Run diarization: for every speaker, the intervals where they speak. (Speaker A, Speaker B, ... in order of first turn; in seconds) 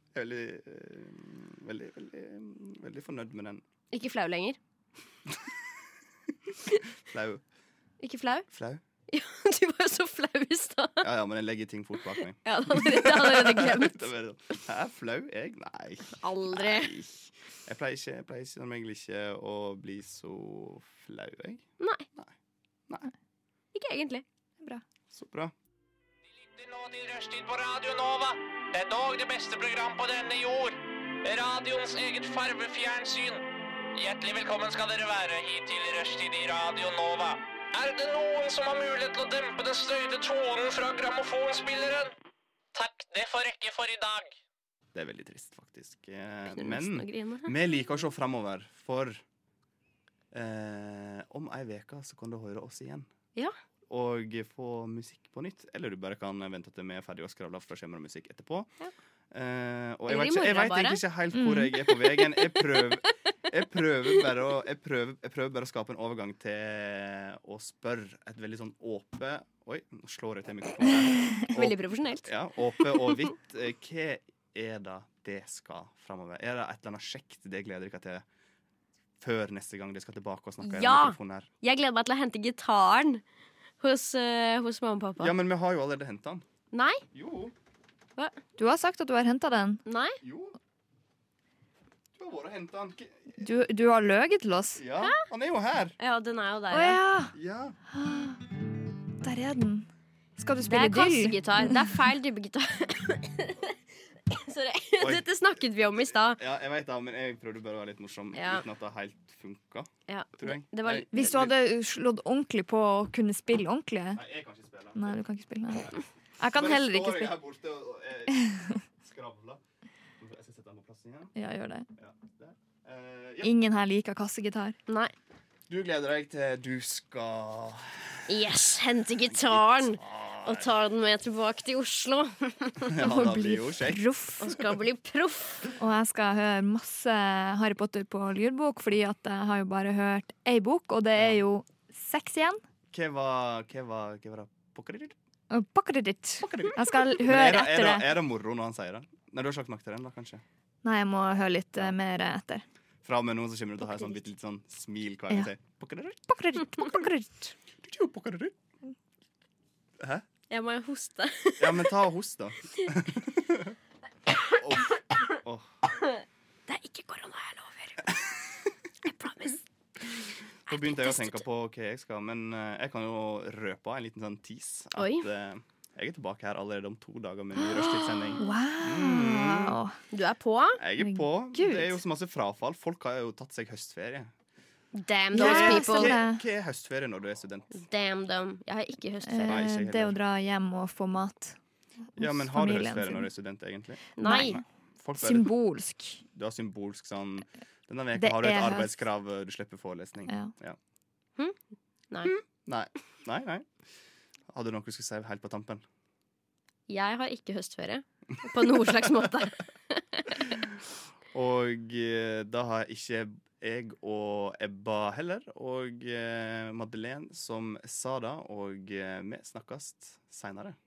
Speaker A: 0.1-3.6, 7.0-7.4, 8.5-8.8, 11.0-21.6, 25.1-25.5, 45.0-49.2, 50.3-53.1, 53.9-58.7, 59.3-78.2, 79.2-81.5, 85.2-86.5, 87.1-87.5, 90.2-90.5, 92.2-93.1, 94.8-96.0, 97.3-97.8, 105.0-105.3, 106.3-111.5, 114.1-115.2, 116.5-119.6, 120.2-121.3, 122.0-123.5, 125.7-128.5, 129.2-130.7, 132.9-134.5, 142.9-145.2, 146.4-150.4, 153.0-156.3, 157.8-158.5, 160.0-160.3, 161.6-163.8, 164.5-165.8, 170.7-179.8, 180.8-184.3, 185.3-187.7, 189.4-190.2, 192.2-195.5, 196.3-200.8, 202.3-203.7, 204.5-205.8, 211.3-220.8
Speaker B: 3.9-4.6, 8.0-8.5, 9.1-11.1, 12.4-14.1, 16.2-16.9, 21.8-22.1, 23.7-24.2, 46.5-47.5, 60.1-61.0, 62.0-62.9, 71.5-73.3, 80.6-83.2, 83.8-85.3, 86.7-87.0, 89.9-90.2, 96.0-97.0, 100.7-103.8, 104.3-106.4, 108.3-108.6, 110.1-111.3, 124.9-125.1, 128.3-132.9, 134.4-135.7, 160.5-162.0, 166.7-168.2, 169.0-169.6, 170.7-171.4, 175.0-175.3, 177.6-178.4, 180.1-180.8, 184.9-186.2, 187.7-189.7, 194.2-194.6, 202.1-202.4, 206.9-210.2
Speaker C: 26.4-33.4, 34.0-42.1, 42.7-44.4
Speaker D: 61.3-61.7, 88.6-89.8, 93.4-94.8, 96.7-97.3, 97.9-98.4, 99.2-99.9, 100.4-101.7, 111.1-114.2, 115.0-117.3, 121.3-121.9, 123.4-124.8, 133.0-134.5, 135.8-142.6, 145.5-148.1, 150.8-152.6, 156.3-157.5, 178.4-180.0, 181.0-182.0, 185.3-186.4, 189.2-191.6, 192.2-193.3, 194.2-194.6, 195.2-196.2, 198.2-199.0, 200.3-200.5